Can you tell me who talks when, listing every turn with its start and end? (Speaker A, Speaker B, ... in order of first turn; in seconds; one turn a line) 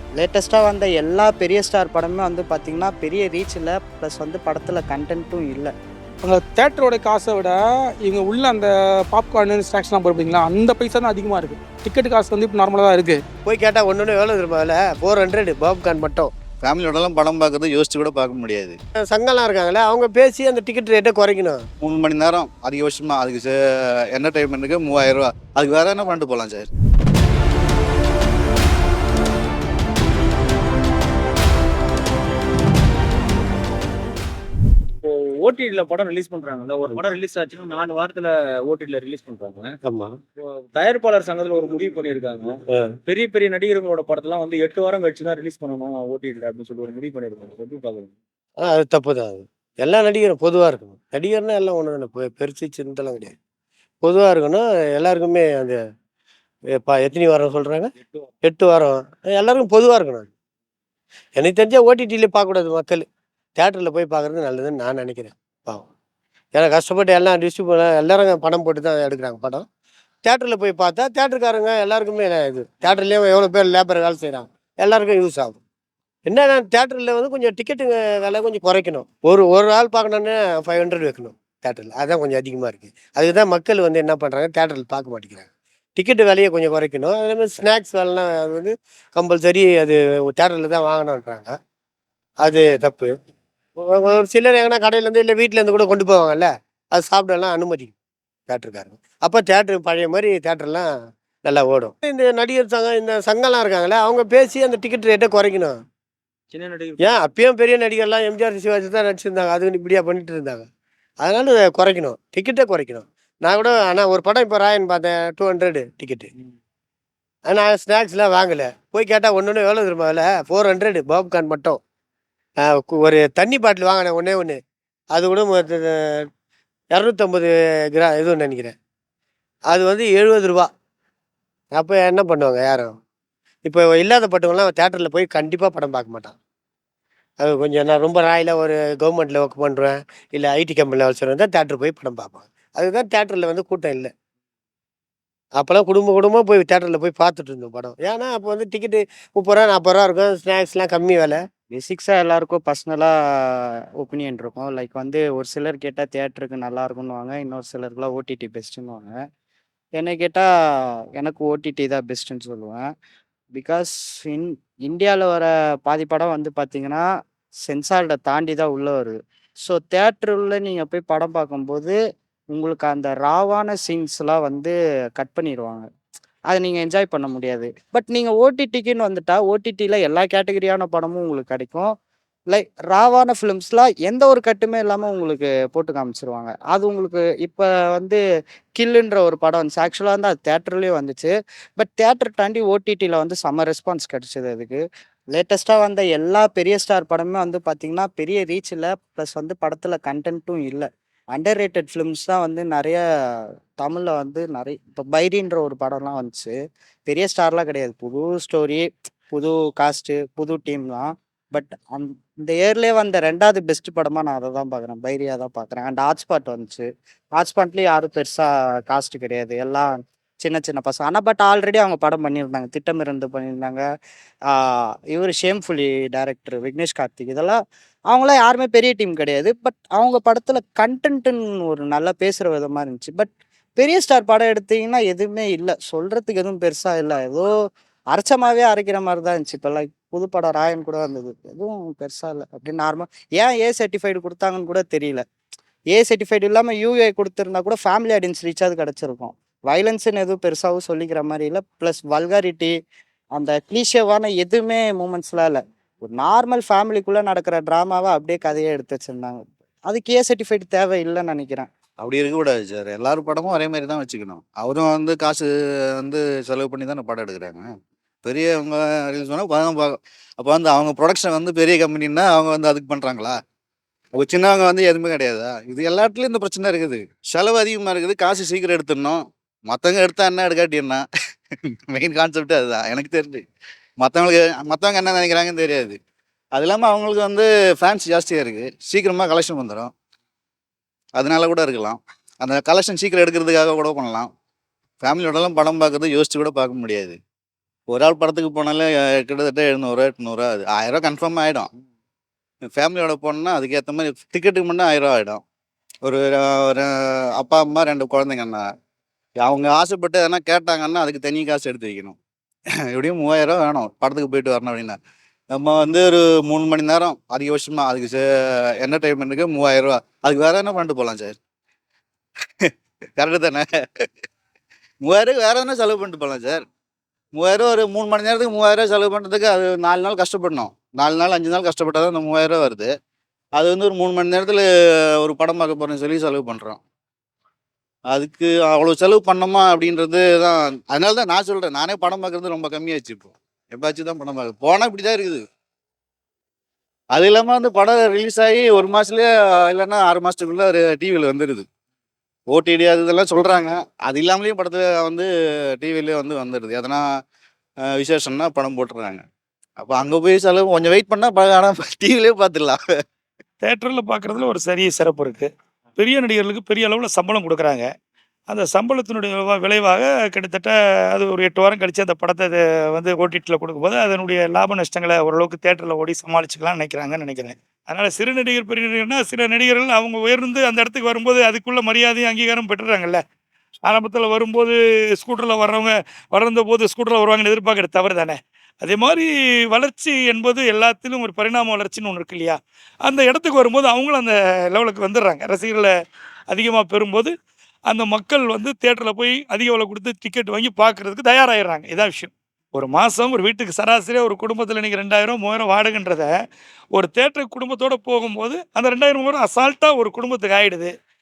Speaker A: 0.2-5.7
Speaker B: 6.2-13.2
Speaker C: 13.5-16.3
Speaker D: 16.6-18.8
Speaker C: 19.1-21.6
Speaker D: 21.8-23.5
Speaker D: 24.1-26.7
Speaker E: 35.0-39.8
Speaker C: 39.8-40.2
Speaker E: 40.4-48.1
Speaker C: 48.6-53.3
Speaker C: 54.0-55.8
Speaker C: 56.7-57.9
Speaker C: 58.4-60.3
Speaker C: 61.4-63.1
Speaker C: 63.6-65.9
Speaker C: 66.5-69.7
Speaker C: 70.2-75.6
Speaker C: 76.3-91.5
Speaker C: 92.4-93.2
Speaker C: 93.8-97.9
Speaker C: 98.5-100.9
Speaker C: 101.5-105.8
Speaker E: 106.5-107.2
Speaker C: 107.0-110.7
Speaker C: 111.2-116.3
Speaker C: 117.5-121.8
Speaker C: 122.7-124.6
Speaker C: 125.2-126.2
Speaker C: 126.9-128.8
Speaker C: 129.7-130.7
Speaker C: 131.7-132.9
Speaker C: 133.6-136.3
Speaker C: 137.4-144.1
Speaker C: 145.6-151.4
Speaker A: 151.7-159.2
Speaker A: 160.0-160.5
Speaker A: 161.2-162.8
Speaker A: 163.6-167.1
Speaker A: 167.7-169.2
Speaker A: 169.7-172.0
Speaker A: 172.5-175.9
Speaker A: 176.5-181.9
Speaker A: 182.5-188.2
Speaker A: 188.8-194.8
Speaker A: 195.3-203.0
Speaker A: 203.8-206.5
Speaker A: 207.1-216.8
Speaker A: 217.4-219.9
Speaker A: 220.4-223.8
Speaker A: 225.1-227.6
Speaker A: 228.1-237.5
Speaker A: 238.1-245.2
Speaker A: 245.9-252.7
Speaker A: 253.4-261.7
Speaker D: 262.0-265.5
Speaker D: 266.0-267.7
Speaker D: 268.2-273.4
Speaker D: 274.2-281.0
Speaker D: 281.9-283.4
Speaker D: 284.0-286.0
Speaker D: 286.6-289.9
Speaker D: 291.2-294.3
Speaker D: 295.0-297.2
Speaker D: 297.9-301.7
Speaker D: 302.7-305.4
Speaker D: 306.0-308.6
Speaker D: 309.4-312.2
Speaker D: 312.9-315.0
Speaker D: 315.5-318.2
Speaker D: 318.8-321.4
Speaker D: 322.6-323.6
Speaker D: 325.0-326.6
Speaker D: 327.3-332.9
Speaker D: 333.6-334.6
Speaker D: 335.2-336.8
Speaker D: 338.1-345.4
Speaker D: 347.2-351.7
Speaker D: 352.5-357.0
Speaker D: 357.9-359.2
Speaker D: 359.8-362.8
Speaker F: 363.6-367.9
Speaker F: 368.5-383.2
Speaker F: 383.8-395.9
Speaker F: 396.5-397.4
Speaker F: 397.9-406.3
Speaker F: 406.9-410.9